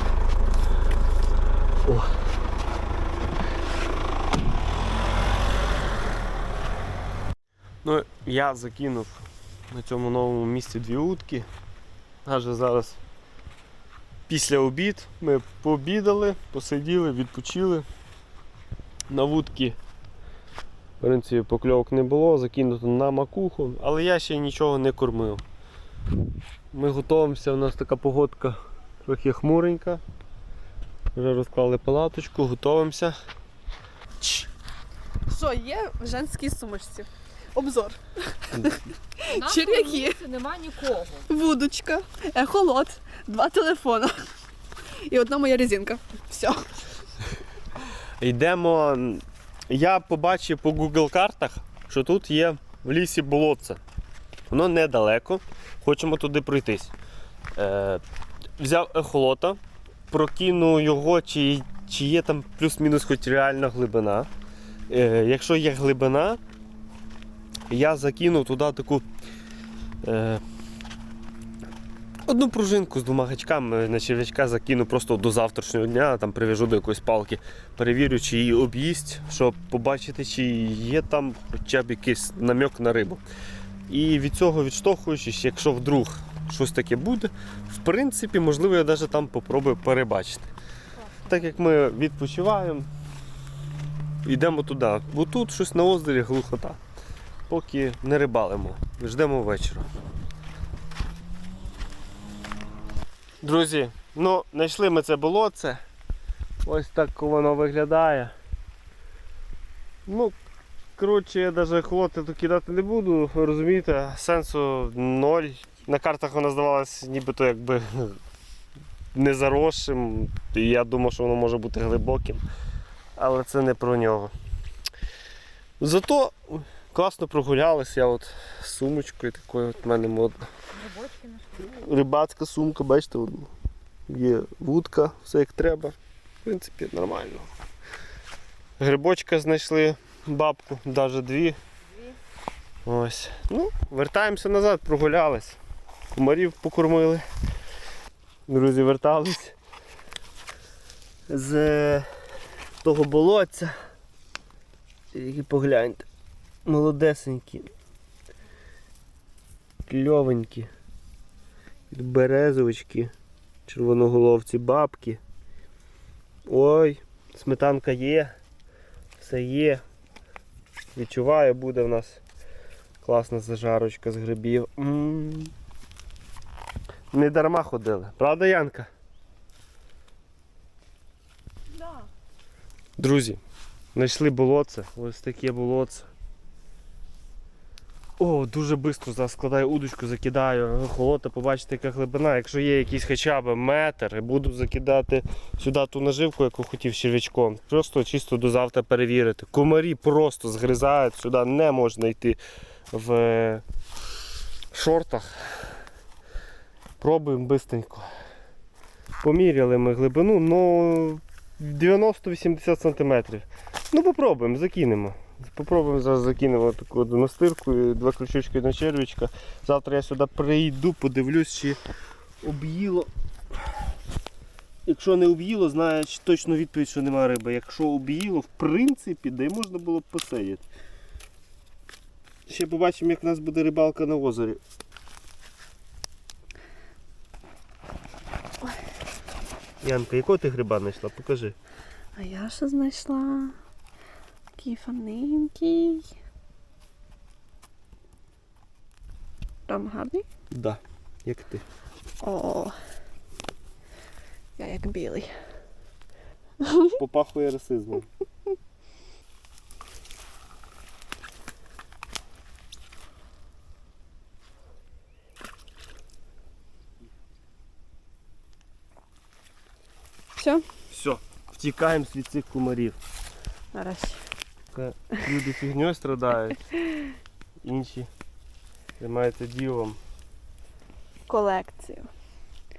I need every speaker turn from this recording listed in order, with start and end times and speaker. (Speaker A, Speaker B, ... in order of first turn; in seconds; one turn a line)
Speaker A: 1.8-2.1
Speaker A: 7.8-11.5
Speaker A: 12.2-13.0
Speaker A: 14.3-17.9
Speaker A: 19.1-19.8
Speaker A: 21.0-25.4
Speaker A: 26.7-30.0
Speaker A: 31.1-33.2
Speaker B: 35.3-40.2
Speaker C: 39.3-41.3
Speaker B: 41.3-46.9
Speaker A: 48.2-53.8
Speaker A: 54.5-56.9
Speaker A: 57.5-58.0
Speaker A: 58.6-64.3
Speaker A: 64.9-66.4
Speaker A: 67.7-69.0
Speaker A: 70.0-70.4
Speaker A: 72.2-83.2
Speaker A: 83.9-90.5
Speaker B: 91.1-91.3
Speaker A: 91.3-92.9
Speaker A: 94.2-96.8
Speaker A: 97.5-99.9
Speaker A: 103.4-105.8
Speaker A: 106.6-108.3
Speaker A: 110.0-110.4
Speaker A: 111.0-118.2
Speaker A: 119.1-122.4
Speaker A: 123.2-124.3
Speaker A: 125.8-130.5
Speaker C: 130.7-131.5
Speaker A: 131.6-133.5
Speaker A: 134.1-137.5
Speaker A: 138.8-141.6
Speaker A: 142.8-145.6
Speaker A: 146.1-147.2
Speaker A: 148.5-149.5
Speaker A: 151.3-152.1
Speaker A: 152.8-153.8
Speaker A: 155.1-156.0
Speaker A: 156.6-157.7
Speaker A: 159.8-160.7
Speaker A: 161.9-163.1
Speaker A: 163.7-165.2
Speaker A: 166.4-168.3
Speaker A: 169.2-169.8
Speaker A: 170.9-172.2
Speaker A: 173.0-175.5
Speaker A: 177.1-178.9
Speaker B: 181.8-182.1
Speaker A: 183.0-183.4
Speaker A: 183.9-186.1
Speaker A: 188.2-202.4
Speaker A: 202.9-203.6
Speaker A: 204.7-205.7
Speaker A: 207.0-208.1
Speaker A: 209.2-221.8
Speaker A: 222.4-223.1
Speaker A: 224.8-230.6
Speaker A: 232.5-234.6
Speaker A: 239.8-241.5
Speaker B: 242.1-243.6
Speaker B: 244.6-246.1
Speaker B: 249.7-250.2
Speaker A: 250.5-251.6
Speaker B: 252.2-252.8
Speaker B: 254.6-255.3
Speaker B: 256.6-256.9
Speaker A: 256.9-258.1
Speaker B: 270.4-270.6
Speaker A: 270.9-273.0
Speaker B: 273.7-274.3
Speaker A: 274.7-276.6
Speaker A: 277.6-278.1
Speaker A: 279.0-280.0
Speaker B: 281.3-282.1